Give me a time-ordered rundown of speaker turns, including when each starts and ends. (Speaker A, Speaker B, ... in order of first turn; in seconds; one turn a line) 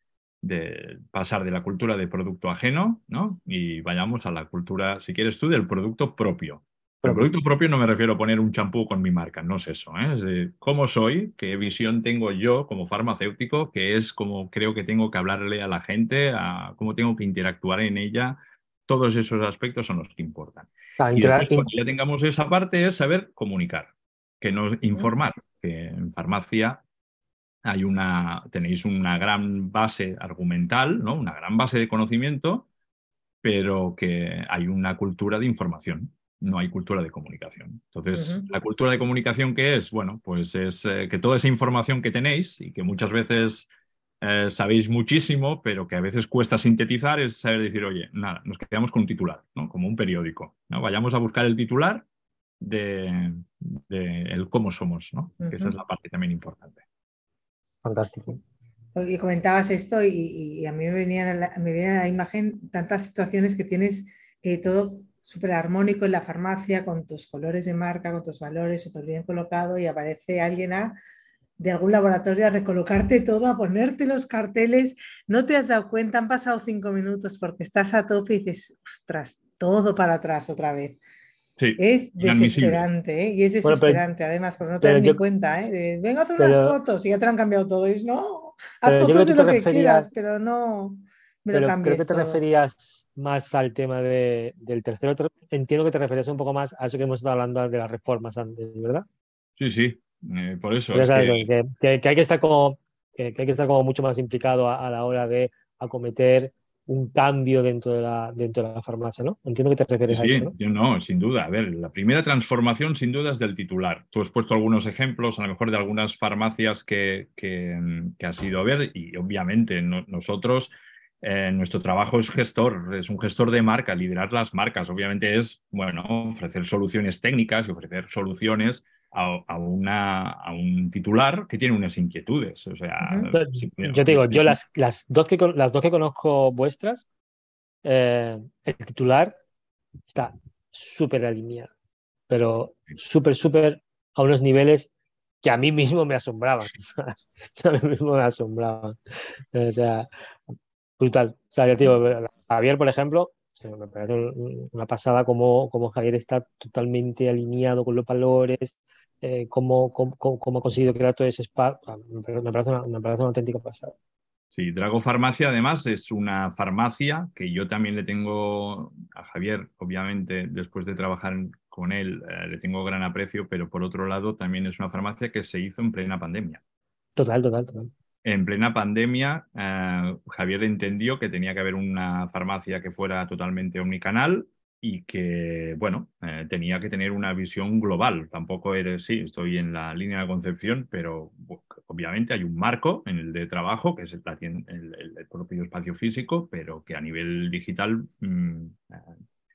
Speaker A: 0.4-26.8
Speaker B: 7.0-7.3
Speaker B: 21.0-21.7
Speaker A: 27.6-32.7
Speaker A: 33.4-43.7
Speaker C: 38.1-38.5
Speaker A: 44.2-52.0
Speaker A: 52.6-56.8
Speaker C: 55.4-55.7
Speaker B: 57.8-58.4
Speaker C: 59.0-70.9
Speaker C: 71.6-81.0
Speaker A: 81.6-82.8
Speaker C: 81.8-92.4
Speaker B: 83.6-84.0
Speaker B: 84.8-85.2
Speaker B: 86.4-86.8
Speaker B: 88.8-90.1
Speaker B: 91.5-99.0
Speaker A: 99.6-101.5
Speaker B: 100.9-110.5
Speaker A: 110.1-134.6
Speaker C: 133.0-133.3
Speaker B: 133.3-137.1
Speaker B: 137.8-139.3
Speaker B: 140.1-141.7
Speaker B: 142.3-144.9
Speaker B: 145.4-148.9
Speaker B: 149.5-150.1
Speaker B: 151.0-163.9
Speaker A: 164.5-176.6
Speaker B: 177.2-177.9
Speaker A: 178.2-199.1